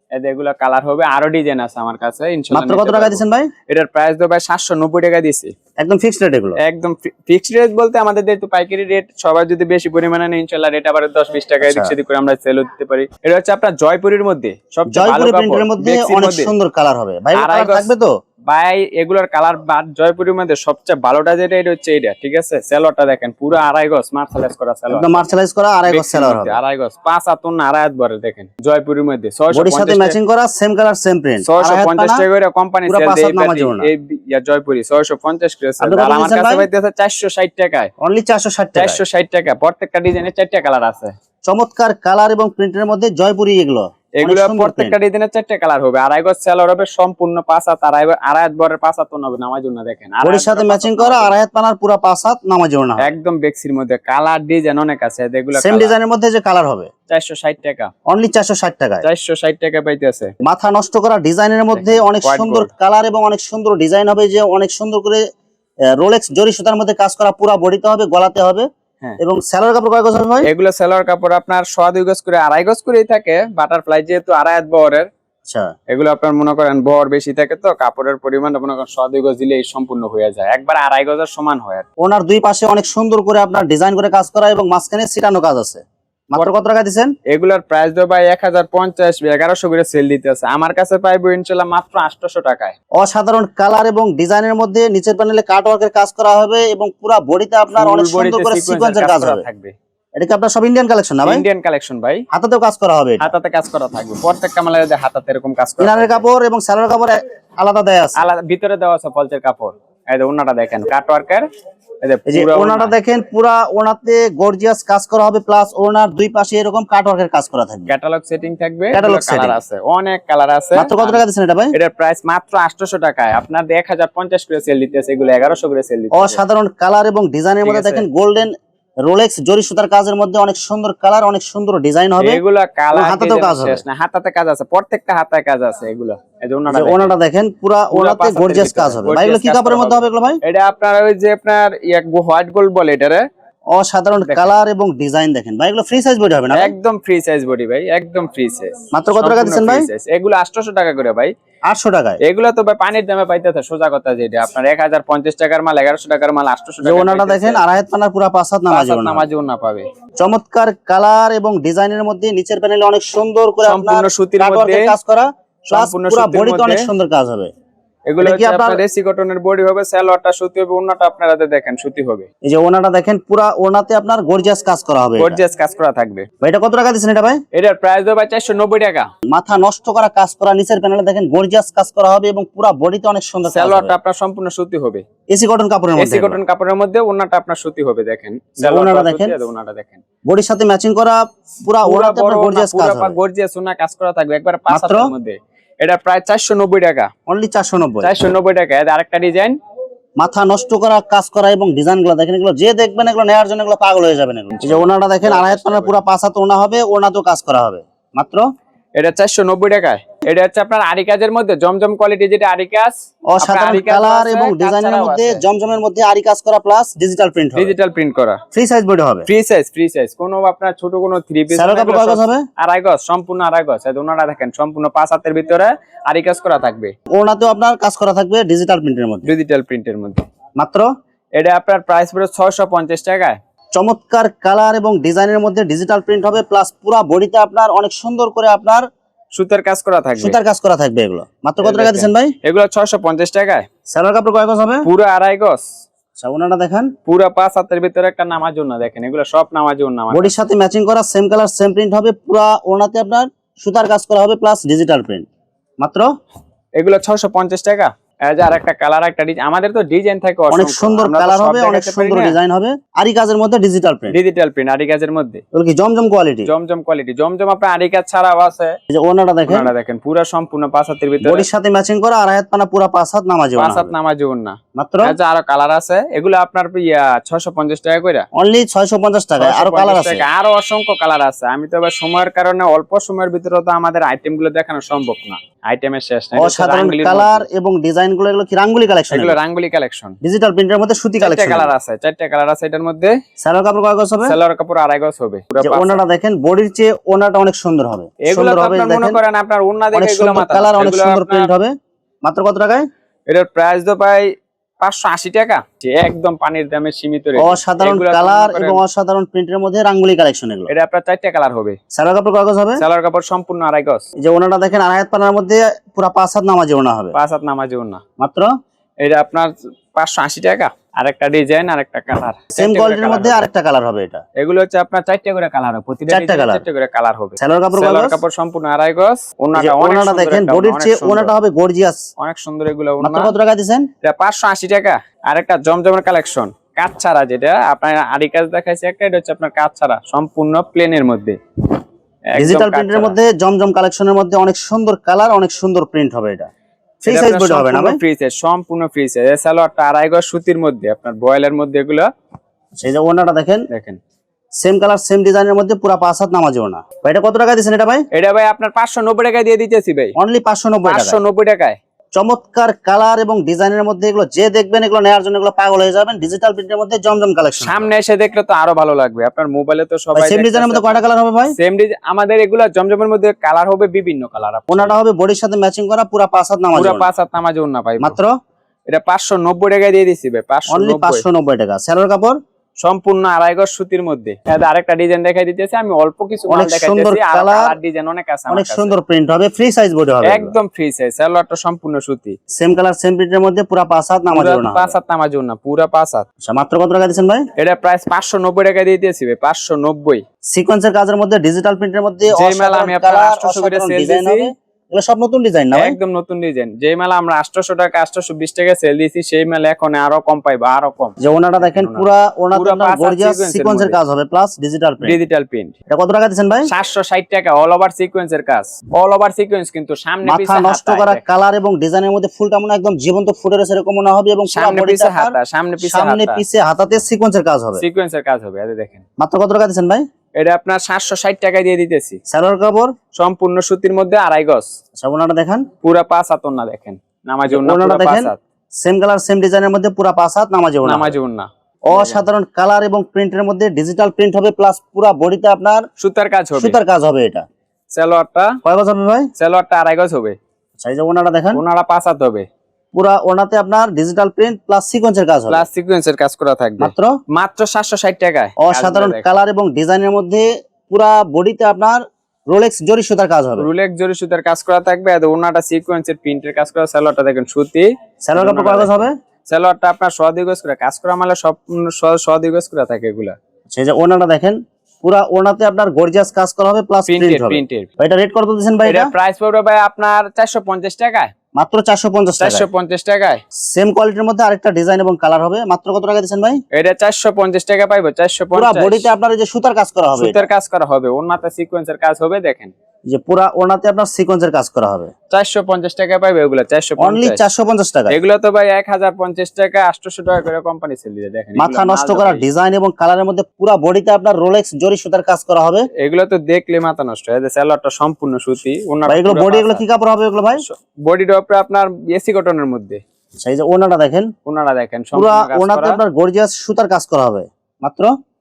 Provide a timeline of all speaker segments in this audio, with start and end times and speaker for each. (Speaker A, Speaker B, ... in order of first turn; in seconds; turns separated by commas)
Speaker A: 0.1-5.5, Speaker B: 2.5-3.5, Speaker B: 5.8-6.6, Speaker A: 6.6-16.5, Speaker B: 11.6-11.9, Speaker B: 14.9-18.1, Speaker A: 17.3-17.9, Speaker A: 18.5-25.3, Speaker B: 24.9-26.6, Speaker A: 25.9-30.2, Speaker B: 29.5-32.2, Speaker A: 31.4-37.9, Speaker B: 32.9-33.9, Speaker B: 35.8-36.7, Speaker B: 38.0-39.0, Speaker A: 38.7-41.1, Speaker B: 41.4-45.0, Speaker A: 44.2-51.4, Speaker B: 50.2-53.1, Speaker A: 53.0-56.0, Speaker B: 55.6-56.9, Speaker A: 57.1-57.9, Speaker B: 58.1-59.0, Speaker A: 59.0-60.3, Speaker B: 60.4-65.2, Speaker A: 61.7-62.7, Speaker B: 66.0-68.7, Speaker B: 69.2-70.5, Speaker A: 70.4-75.1, Speaker B: 75.5-75.7, Speaker A: 75.9-81.8, Speaker B: 82.0-87.1, Speaker A: 87.3-92.7, Speaker B: 93.0-99.4, Speaker A: 97.7-99.7, Speaker B: 100.2-101.4, Speaker A: 101.2-102.2, Speaker B: 102.3-103.3, Speaker A: 103.2-106.2, Speaker B: 105.8-108.3, Speaker A: 108.2-111.4, Speaker A: 112.0-113.0, Speaker B: 112.3-117.9, Speaker A: 117.9-121.2, Speaker B: 118.9-119.6, Speaker B: 120.8-121.7, Speaker A: 121.7-126.4, Speaker B: 126.1-128.5, Speaker A: 127.6-128.1, Speaker B: 129.0-132.4, Speaker A: 132.2-137.2, Speaker B: 132.9-133.8, Speaker B: 136.7-140.4, Speaker A: 137.9-143.2, Speaker B: 143.7-146.7, Speaker A: 144.2-144.6, Speaker A: 146.5-151.3, Speaker B: 148.9-149.9, Speaker B: 151.7-152.2, Speaker A: 152.2-157.6, Speaker B: 156.8-159.2, Speaker A: 158.7-159.8, Speaker B: 160.2-167.5, Speaker A: 163.7-164.9, Speaker A: 165.7-166.9, Speaker A: 168.1-172.3, Speaker B: 168.2-168.8, Speaker B: 172.4-175.4, Speaker A: 175.2-176.3, Speaker B: 176.4-177.4, Speaker A: 177.5-179.1, Speaker B: 179.3-183.9, Speaker A: 183.5-185.0, Speaker B: 185.3-186.4, Speaker A: 186.0-190.0, Speaker B: 188.6-189.3, Speaker B: 190.3-193.2, Speaker A: 191.8-197.1, Speaker B: 194.7-195.1, Speaker B: 197.3-198.1, Speaker A: 198.0-199.6, Speaker B: 200.2-208.4, Speaker A: 204.6-206.0, Speaker A: 209.0-215.4, Speaker B: 213.3-217.7, Speaker A: 217.5-218.4, Speaker B: 218.5-219.3, Speaker A: 219.3-226.9, Speaker B: 221.5-222.4, Speaker B: 227.1-229.3, Speaker A: 229.2-230.2, Speaker B: 230.6-230.9, Speaker A: 231.3-233.4, Speaker B: 233.7-238.8, Speaker A: 239.3-240.4, Speaker B: 240.2-242.3, Speaker A: 241.6-243.7, Speaker B: 243.9-244.9, Speaker A: 244.8-245.7, Speaker B: 246.2-246.9, Speaker A: 247.1-250.3, Speaker B: 250.1-255.2, Speaker B: 255.8-256.1, Speaker A: 256.8-262.4, Speaker B: 260.5-264.2, Speaker A: 264.1-265.4, Speaker B: 265.5-266.5, Speaker A: 266.4-268.8, Speaker B: 268.9-269.7, Speaker A: 269.4-271.5, Speaker B: 271.2-273.9, Speaker A: 273.6-278.2, Speaker B: 274.8-275.1, Speaker B: 278.4-280.2, Speaker A: 279.4-287.4, Speaker B: 286.4-289.4, Speaker A: 289.1-290.2, Speaker B: 290.2-291.7, Speaker A: 291.2-293.1, Speaker B: 293.4-294.3, Speaker A: 294.2-296.0, Speaker B: 295.6-299.2, Speaker A: 298.2-301.5, Speaker B: 299.9-301.7, Speaker B: 302.2-302.9, Speaker A: 303.3-304.3, Speaker A: 304.8-308.8, Speaker B: 307.4-310.7, Speaker A: 310.7-311.8, Speaker B: 311.9-312.8, Speaker A: 312.8-314.0, Speaker B: 314.2-317.1, Speaker A: 317.1-318.0, Speaker B: 318.2-318.5, Speaker A: 319.0-323.5, Speaker B: 322.6-324.2, Speaker A: 324.4-331.3, Speaker B: 326.1-326.6, Speaker B: 327.4-328.2, Speaker B: 329.5-332.0, Speaker A: 332.2-333.3, Speaker B: 333.0-333.9, Speaker A: 334.0-341.4, Speaker A: 342.3-343.2, Speaker B: 342.4-346.5, Speaker B: 347.0-348.0, Speaker A: 347.1-352.1, Speaker B: 352.8-353.6, Speaker A: 353.7-354.0, Speaker B: 354.6-358.1, Speaker A: 358.1-360.1, Speaker B: 360.2-361.2, Speaker A: 360.8-361.8, Speaker B: 362.1-367.9, Speaker A: 367.6-371.0, Speaker B: 370.1-371.6, Speaker A: 371.6-375.0, Speaker B: 374.7-377.1, Speaker A: 376.7-378.2, Speaker B: 378.0-378.3, Speaker A: 378.9-381.2, Speaker B: 380.7-382.4, Speaker A: 382.8-388.9, Speaker B: 386.5-387.7, Speaker B: 388.5-390.5, Speaker A: 390.2-392.4, Speaker B: 392.5-394.9, Speaker A: 394.3-396.2, Speaker B: 396.4-397.4, Speaker A: 397.6-400.2, Speaker B: 400.5-406.0, Speaker A: 402.3-404.5, Speaker A: 405.7-414.0, Speaker B: 411.2-415.2, Speaker A: 415.0-415.7, Speaker B: 415.9-416.7, Speaker A: 416.7-421.2, Speaker B: 420.2-427.8, Speaker A: 424.5-426.4, Speaker A: 427.8-429.0, Speaker B: 429.2-430.0, Speaker A: 430.4-432.2, Speaker B: 432.3-432.9, Speaker A: 433.1-434.7, Speaker B: 434.9-435.7, Speaker A: 435.8-438.4, Speaker B: 437.5-441.1, Speaker A: 440.8-442.2, Speaker B: 441.9-445.9, Speaker A: 446.0-446.8, Speaker B: 446.6-447.4, Speaker A: 447.9-448.6, Speaker B: 448.6-449.3, Speaker A: 449.4-450.4, Speaker B: 450.8-451.6, Speaker A: 451.5-452.4, Speaker B: 452.9-455.6, Speaker A: 455.5-459.4, Speaker B: 456.8-457.1, Speaker B: 458.6-463.7, Speaker A: 463.6-473.3, Speaker B: 468.2-469.1, Speaker B: 473.7-479.1, Speaker A: 477.1-477.9, Speaker A: 478.8-481.3, Speaker B: 481.6-482.7, Speaker A: 482.4-483.4, Speaker B: 483.7-486.6, Speaker A: 486.7-489.1, Speaker B: 488.5-490.5, Speaker A: 490.1-492.7, Speaker B: 493.1-495.1, Speaker A: 495.3-497.4, Speaker B: 497.0-498.1, Speaker A: 498.1-502.4, Speaker B: 501.6-505.9, Speaker A: 506.0-509.8, Speaker B: 509.1-510.6, Speaker A: 510.6-513.0, Speaker B: 513.4-514.3, Speaker A: 514.5-516.0, Speaker B: 515.1-518.1